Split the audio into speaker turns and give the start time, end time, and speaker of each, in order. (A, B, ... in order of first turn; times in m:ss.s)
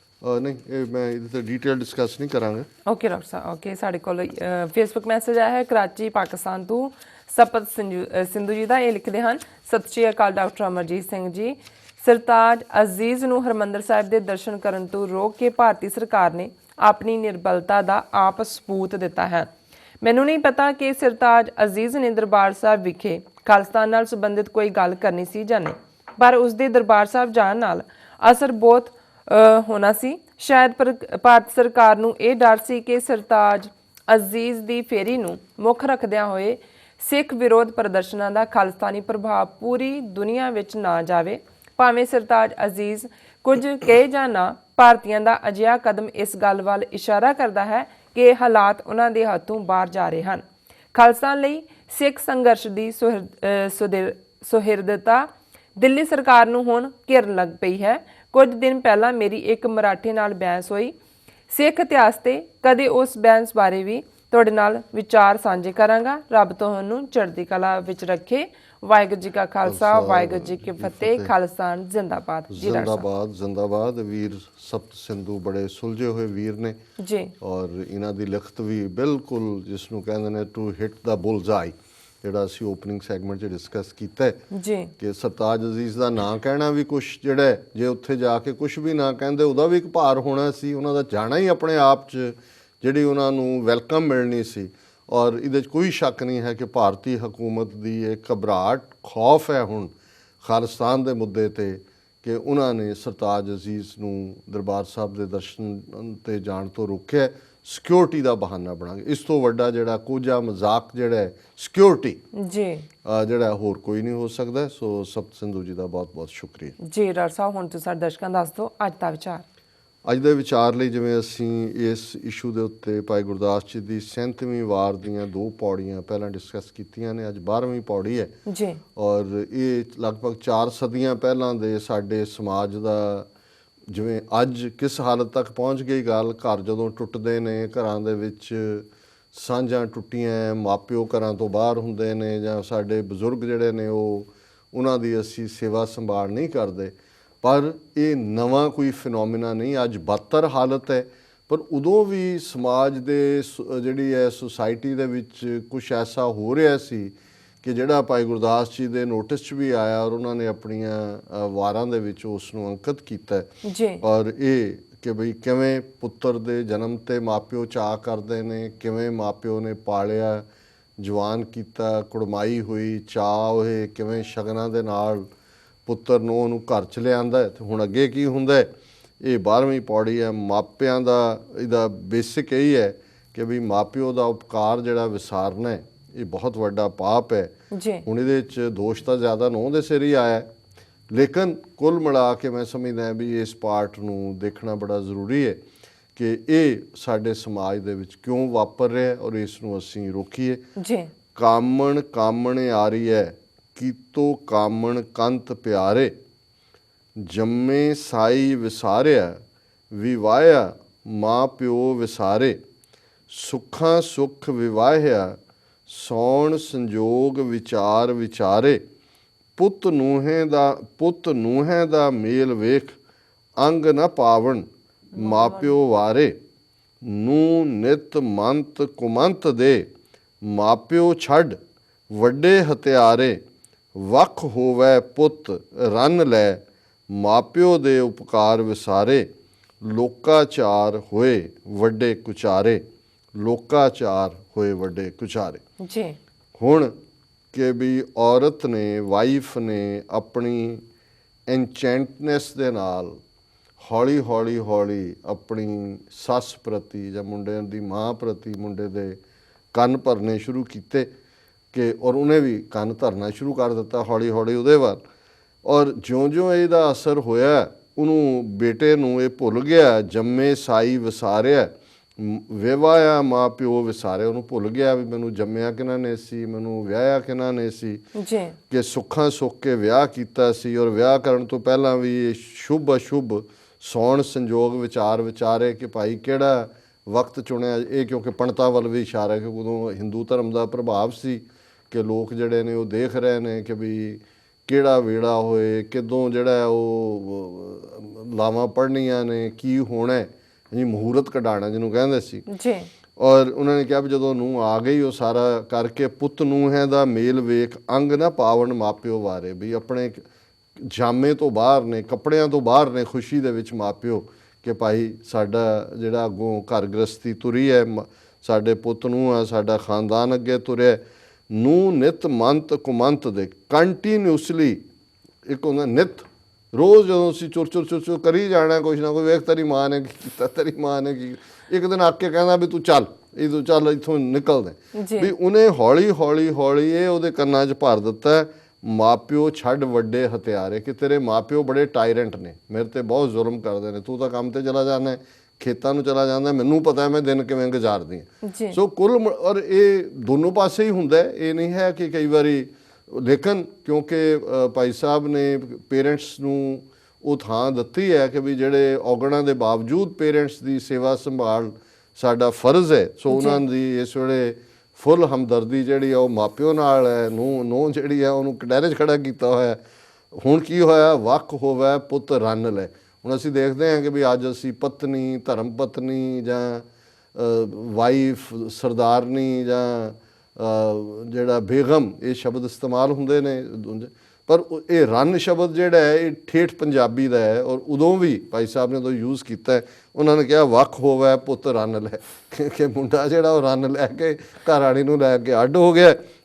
0:00.2-0:02.7 A
0:02.9-0:19.5 B
0:20.0-1:01.0 B
1:01.5-1:13.1 B
1:09.7-1:11.3 A
1:12.5-1:16.8 A
1:17.0-1:17.3 B
1:17.4-1:24.4 A
1:24.5-1:24.9 B
1:25.0-1:52.2 A
1:52.4-1:52.8 B
1:53.0-1:56.8 A
1:56.8-1:59.4 B
2:00.0-2:08.3 A
2:08.5-2:08.8 B
2:09.0-2:13.3 A
2:13.9-2:50.4 A
2:43.6-2:44.0 B
2:51.0-2:55.3 A
2:55.9-2:58.7 A
2:59.2-3:07.5 A
3:07.7-3:08.0 B
3:08.1-3:10.5 A
3:11.1-3:15.6 A
3:16.2-3:20.6 A
3:20.8-3:21.1 B
3:21.4-3:26.1 A
3:27.2-3:29.4 A
3:29.9-3:32.6 A
3:33.3-3:38.8 A
3:39.6-3:43.0 A
3:43.6-3:46.4 A
3:45.1-3:45.8 B
3:47.0-3:49.9 A
3:50.4-3:51.6 A
3:52.1-3:53.4 A
3:54.0-3:59.3 A
3:59.8-4:02.8 A
4:03.4-4:05.6 A
4:05.8-4:06.2 B
4:06.6-4:06.9 A
4:07.5-4:10.8 A
4:11.5-4:13.2 A
4:13.8-4:19.2 A
4:19.7-4:21.1 A
4:21.7-4:25.0 A
4:25.6-4:38.0 A
4:38.2-4:38.6 B
4:38.7-5:02.5 A
5:02.5-5:02.9 B
5:03.2-5:10.3 A
5:10.8-5:24.8 A
5:25.4-6:09.8 A
5:35.0-5:35.3 B
5:48.4-5:48.8 B
6:03.3-6:03.6 B
6:10.3-6:36.2 A